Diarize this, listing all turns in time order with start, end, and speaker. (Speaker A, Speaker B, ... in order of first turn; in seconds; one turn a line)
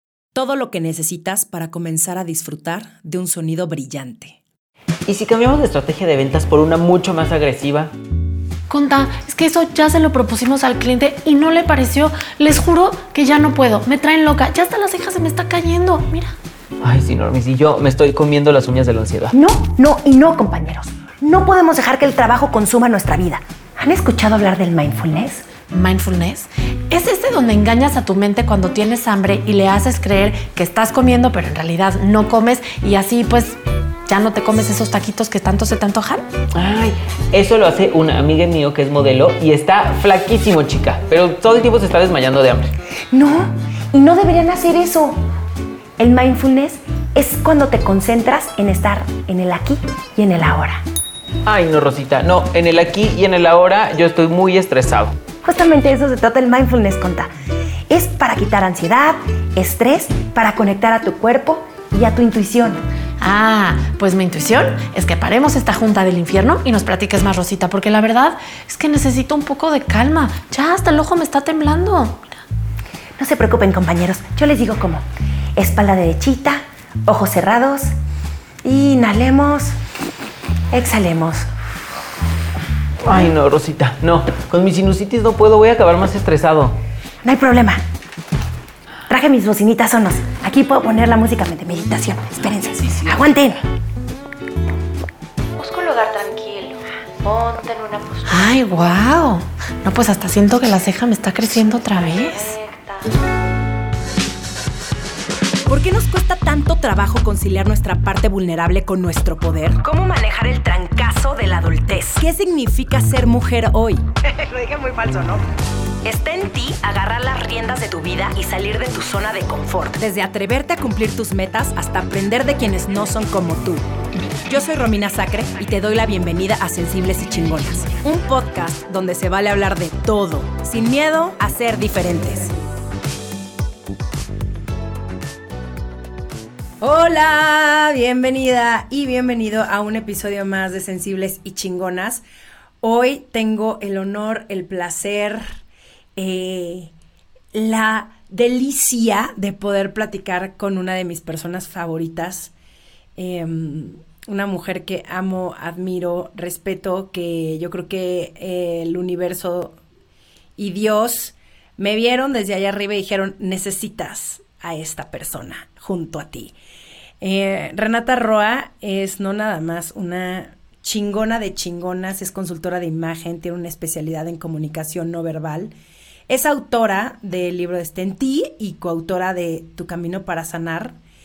Speaker A: 0.3-4.4
Speaker B: 5.1-7.9
Speaker C: 8.7-16.3
Speaker B: 16.8-19.3
Speaker D: 19.3-25.5
Speaker C: 25.7-36.2
Speaker B: 36.5-42.7
Speaker D: 43.1-45.1
Speaker D: 46.0-50.8
Speaker B: 51.5-55.1
Speaker D: 55.4-57.3
Speaker D: 57.9-62.8
Speaker C: 63.2-72.2
Speaker D: 73.2-75.0
Speaker D: 75.5-77.9
Speaker D: 78.6-79.7
Speaker D: 80.7-81.4
Speaker B: 83.0-86.8
Speaker D: 87.2-87.8
Speaker D: 89.1-93.6
Speaker E: 95.6-98.5
Speaker C: 98.3-102.5
Speaker E: 102.3-103.1
Speaker A: 105.7-115.4
Speaker A: 116.0-123.8
Speaker A: 124.4-132.5
Speaker A: 136.8-142.2
Speaker A: 142.8-145.6
Speaker A: 146.2-146.9
Speaker A: 147.5-152.5
Speaker A: 153.2-159.8
Speaker A: 160.6-166.5
Speaker A: 167.2-175.7
Speaker A: 176.3-181.0